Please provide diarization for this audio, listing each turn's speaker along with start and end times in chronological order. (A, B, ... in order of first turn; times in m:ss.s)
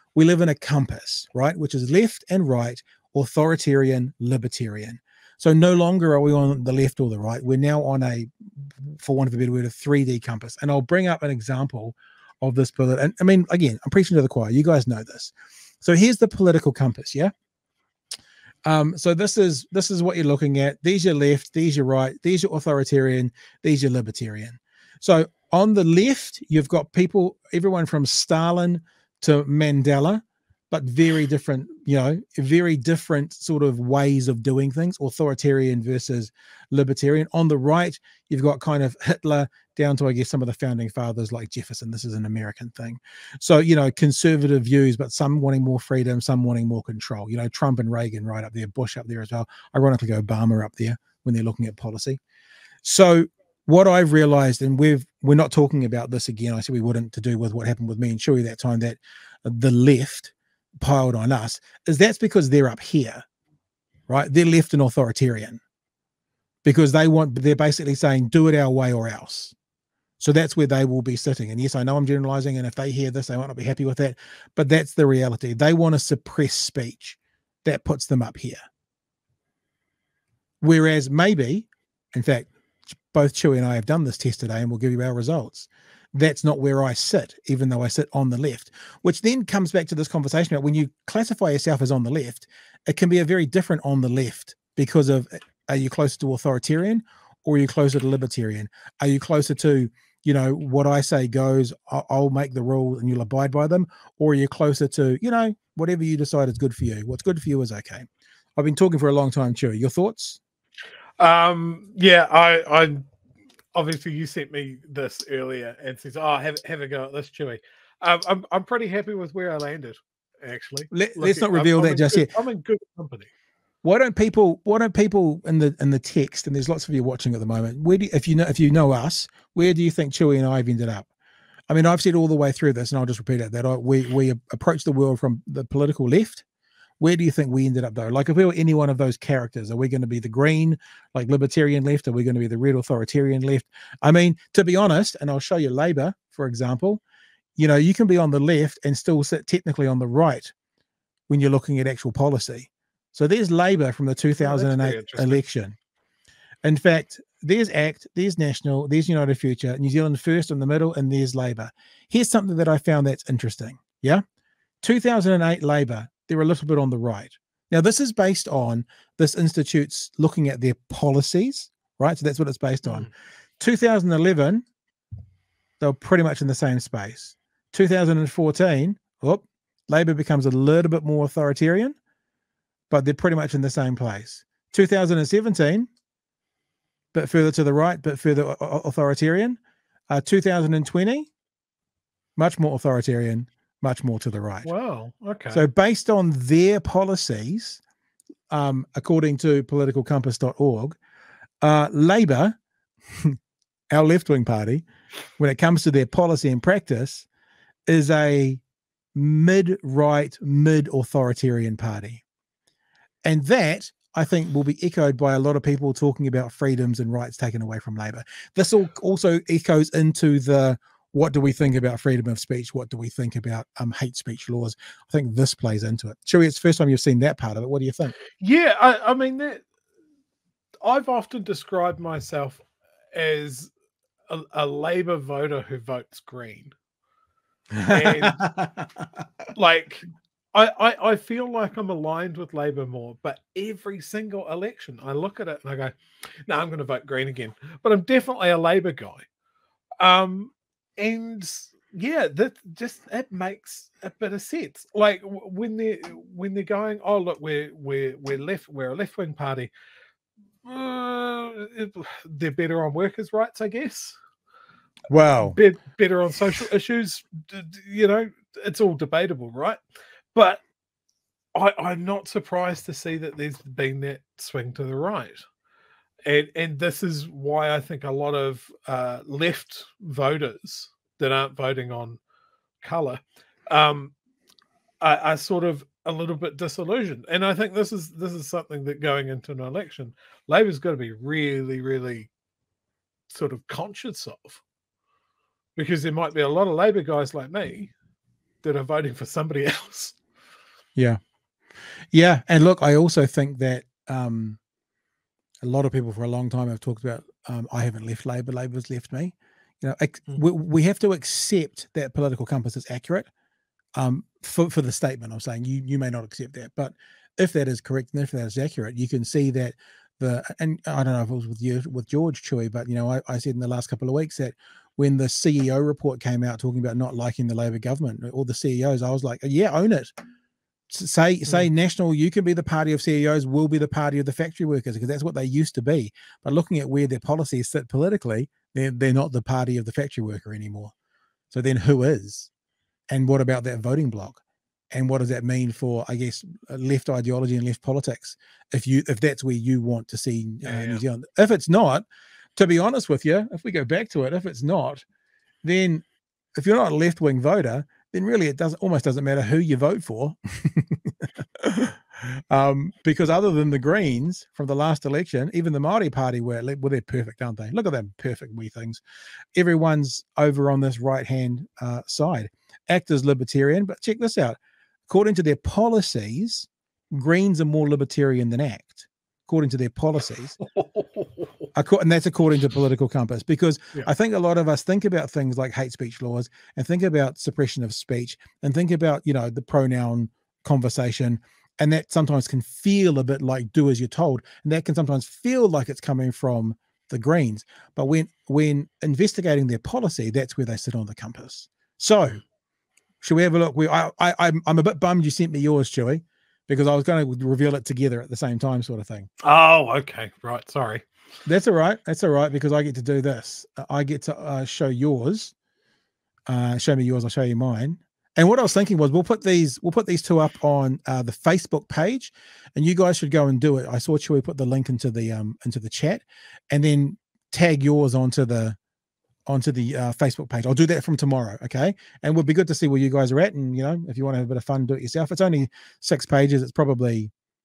0:00.2-0:17.3 A
0:18.6-0:52.2 A
0:52.8-1:03.2 A
1:04.1-1:05.6 A
1:06.6-1:09.6 A
1:10.2-1:18.6 A
1:20.6-1:22.5 A
1:23.1-1:48.1 A
1:48.6-1:50.4 A
1:51.2-1:53.1 B
1:53.8-2:03.3 B
2:00.9-2:02.3 A
2:03.8-2:11.1 A
2:11.7-2:16.4 A
2:17.0-2:27.0 A
2:27.6-2:30.5 A
2:31.3-2:35.8 A
2:34.4-2:35.4 B
2:36.6-2:44.2 A
2:44.8-2:54.6 A
2:52.8-2:53.1 B
2:55.8-3:02.0 A
3:02.9-3:05.9 A
3:07.1-3:09.6 A
3:10.1-3:11.3 A
3:12.4-3:14.7 A
3:14.6-3:15.6 B
3:15.5-3:17.8 A
3:18.5-3:21.0 A
3:21.6-3:22.6 A
3:23.9-3:24.8 A
3:25.4-3:27.3 A
3:27.9-3:28.6 A
3:29.2-3:32.2 A
3:33.3-3:48.2 A
3:48.4-3:49.6 B
3:50.8-3:53.7 B
3:54.3-3:56.7 B
3:57.7-3:59.1 A
3:57.9-3:58.4 B
3:59.6-4:09.3 B
4:10.0-4:19.7 B
4:20.6-4:24.2 B
4:25.1-4:25.6 A
4:25.4-4:29.8 B
4:30.3-4:30.6 B
4:31.6-4:35.4 B
4:36.2-4:42.2 B
4:42.8-4:44.1 B
4:45.0-4:52.3 B
4:53.3-4:54.6 B
4:55.8-4:57.9 B
4:58.6-5:00.2 B
5:02.1-5:04.6 A
5:05.6-5:13.3 A
5:14.0-5:30.1 A
5:30.9-5:40.9 A
5:41.5-5:42.5 A
5:43.1-5:44.4 A
5:44.9-5:52.0 A
5:50.6-5:51.0 B
5:52.6-5:55.0 A
5:55.6-5:56.0 A
5:56.6-6:09.0 A
6:09.6-6:20.6 A
6:20.8-6:21.4 B
6:21.8-6:42.4 A
6:43.2-6:49.3 A
6:49.4-6:51.0 B
6:51.4-6:55.5 A
6:56.5-7:08.8 A
7:09.5-7:17.3 A